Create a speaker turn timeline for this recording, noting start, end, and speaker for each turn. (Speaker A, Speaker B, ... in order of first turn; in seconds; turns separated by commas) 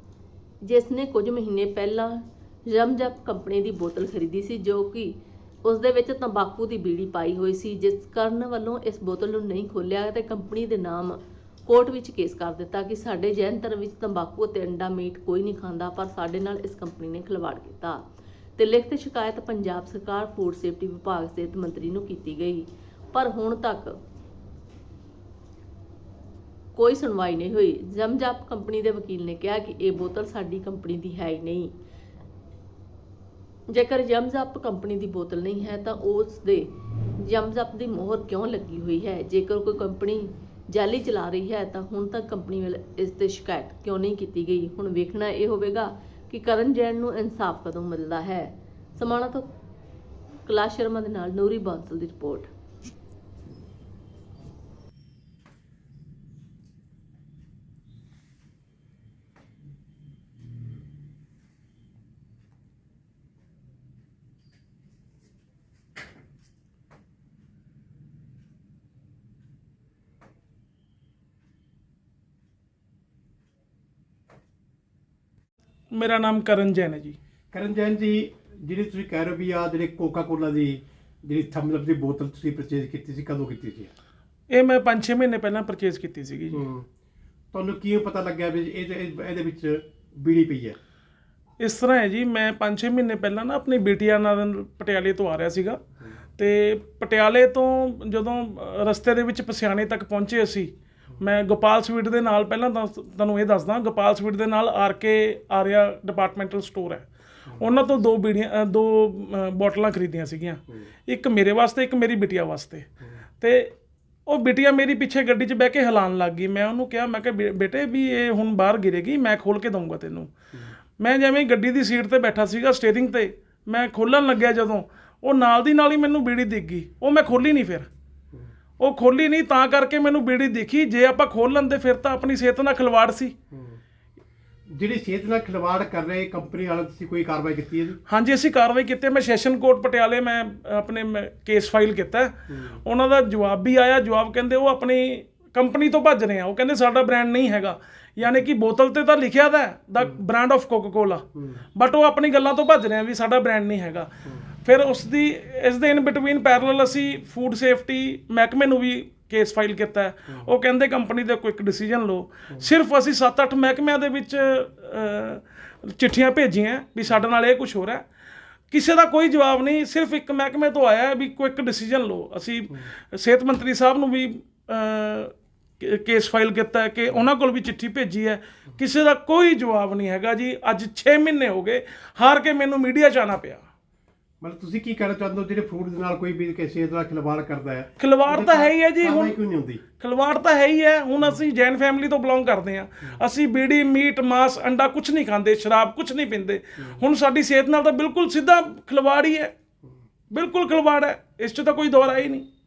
Speaker A: 0.6-18.0, Speaker A: 18.6-24.0, Speaker A: 26.7-31.7, Speaker A: 33.7-49.5, Speaker A: 50.4-52.5, Speaker B: 75.9-77.2, Speaker C: 77.5-83.9, Speaker B: 84.5-86.6, Speaker C: 86.5-86.9, Speaker C: 87.5-90.8, Speaker B: 91.6-95.8, Speaker B: 96.4-112.9, Speaker B: 113.4-113.7, Speaker B: 114.3-120.3, Speaker B: 121.0-127.9, Speaker B: 128.8-133.3, Speaker C: 133.5-133.8, Speaker C: 134.7-138.0, Speaker B: 138.1-154.1, Speaker C: 142.5-142.8, Speaker C: 151.3-151.6, Speaker B: 154.6-168.0, Speaker B: 168.7-183.6, Speaker C: 184.4-189.8, Speaker B: 188.0-189.4, Speaker B: 190.0-199.5, Speaker B: 200.3-202.5